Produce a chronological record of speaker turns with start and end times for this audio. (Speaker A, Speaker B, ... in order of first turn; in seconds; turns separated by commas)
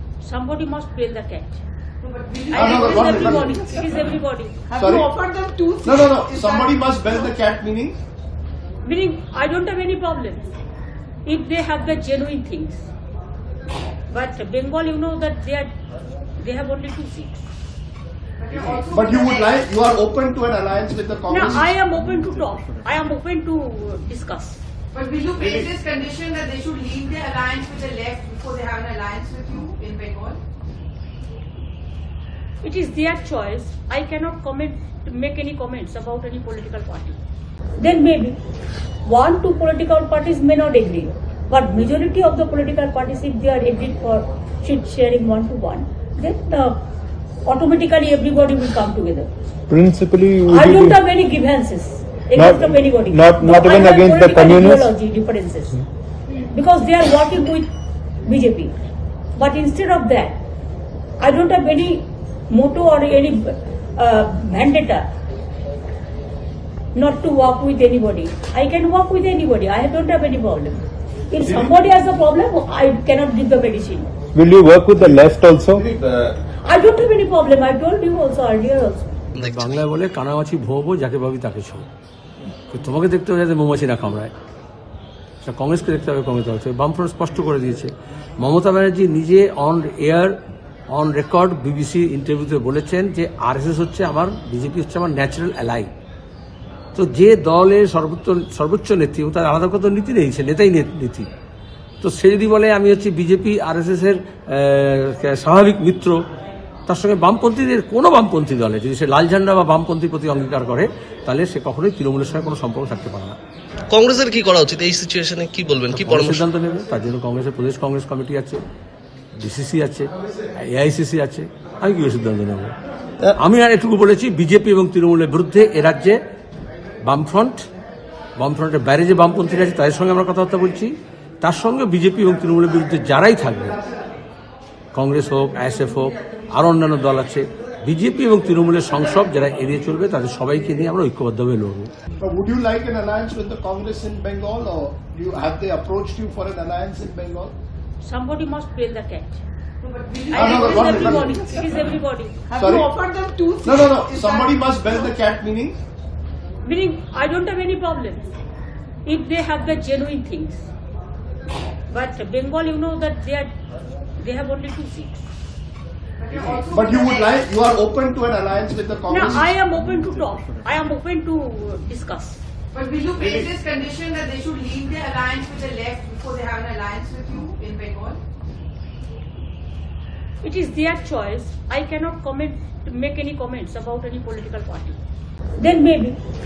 Speaker A: 0.2-1.6, Speaker B: 2.0-3.5, Speaker A: 2.5-4.6, Speaker C: 2.5-3.6, Speaker B: 4.7-7.3, Speaker C: 4.8-5.1, Speaker C: 5.8-8.0, Speaker A: 8.8-10.5, Speaker A: 11.2-12.8, Speaker A: 14.1-15.7, Speaker A: 16.4-17.4, Speaker B: 18.4-19.5, Speaker C: 18.9-21.7, Speaker A: 21.3-24.6, Speaker B: 24.9-30.4, Speaker A: 32.6-37.2, Speaker A: 37.8-38.4, Speaker A: 39.0-46.8, Speaker A: 47.4-49.3, Speaker D: 49.7-51.0, Speaker A: 50.5-55.8, Speaker D: 52.4-54.9, Speaker A: 56.5-57.7, Speaker A: 58.2-58.7, Speaker A: 59.3-60.4, Speaker A: 61.2-65.1, Speaker A: 66.9-74.1, Speaker D: 74.3-75.9, Speaker A: 76.6-79.1, Speaker E: 79.3-79.8, Speaker F: 79.4-81.9, Speaker F: 82.7-84.3, Speaker F: 85.4-90.3, Speaker F: 90.9-95.9, Speaker F: 96.9-101.3, Speaker F: 102.0-106.2, Speaker F: 106.9-113.4, Speaker E: 113.9-116.4, Speaker F: 115.9-118.6, Speaker F: 119.3-122.7, Speaker F: 123.3-126.2, Speaker F: 127.0-127.6, Speaker F: 128.4-133.8, Speaker F: 134.9-141.9, Speaker C: 142.2-147.5, Speaker A: 148.0-149.4, Speaker B: 149.8-151.2, Speaker A: 150.3-152.4, Speaker C: 150.3-151.3, Speaker B: 152.5-154.9, Speaker C: 152.6-152.9, Speaker C: 153.6-155.8, Speaker A: 156.6-158.3, Speaker A: 159.0-160.7, Speaker A: 161.9-163.5, Speaker A: 164.2-165.2, Speaker B: 166.2-167.3, Speaker C: 166.7-169.5, Speaker A: 169.1-172.4, Speaker B: 172.7-178.2, Speaker A: 180.4-185.0, Speaker A: 185.6-186.2